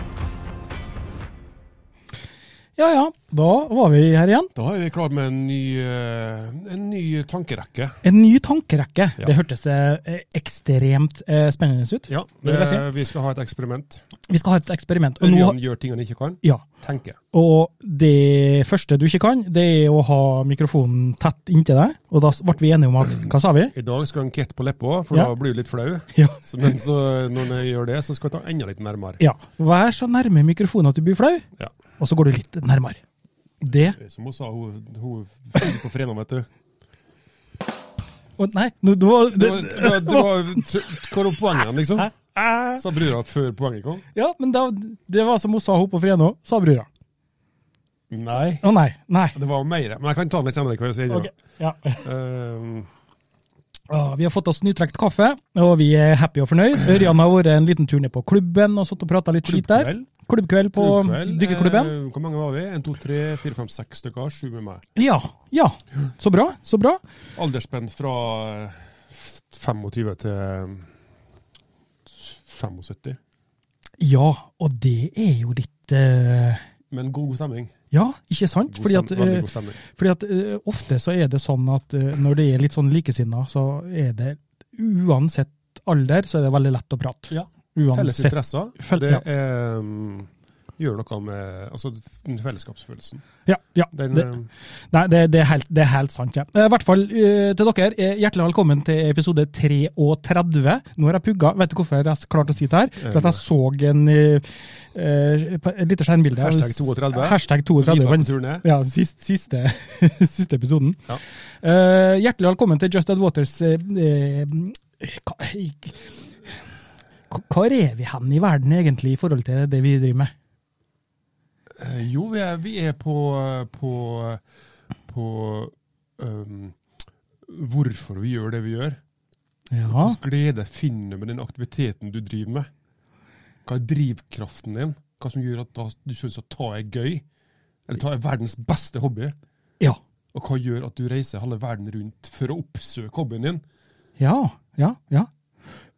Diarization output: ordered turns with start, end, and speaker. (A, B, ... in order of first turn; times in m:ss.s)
0:02.8-0:04.5 A
0:04.5-0:08.0 B
0:08.0-0:12.8 A
0:12.1-0:14.0 B
0:14.3-0:15.6 A
0:15.2-0:17.2 B
0:17.3-0:23.7 A
0:23.7-0:29.2 B
0:26.1-0:26.4 A
0:29.2-0:31.4 A
0:32.0-0:33.0 A
0:33.6-0:34.0 A
0:33.8-0:36.5 B
0:38.4-0:41.0 A
0:39.3-0:42.1 B
0:42.0-0:42.8 A
0:42.8-0:44.0 B
0:44.1-0:46.9 A
0:48.1-0:48.6 B
0:48.6-0:49.4 A
0:49.3-0:51.3 B
0:51.1-0:52.1 A
0:52.0-0:52.9 B
0:53.9-1:01.9 A
0:59.4-1:00.1 B
1:00.7-1:04.8 B
1:05.0-1:07.0 A
1:07.3-1:10.9 B
1:12.0-1:13.2 B
1:14.0-1:16.6 A
1:16.9-1:17.7 B
1:17.9-1:29.2 A
1:18.7-1:19.8 B
1:27.3-1:33.2 B
1:33.4-1:34.3 A
1:33.9-1:34.5 B
1:34.9-1:51.0 A
1:43.0-1:43.4 B
1:46.4-1:48.6 B
1:51.6-1:56.6 A
1:57.3-2:00.3 A
2:01.8-2:04.4 B
2:05.1-2:06.8 B
2:07.4-2:09.0 B
2:09.7-2:10.2 A
2:09.9-2:12.7 B
2:13.6-2:17.2 B
2:17.9-2:19.4 B
2:20.3-2:23.6 B
2:24.2-2:25.3 A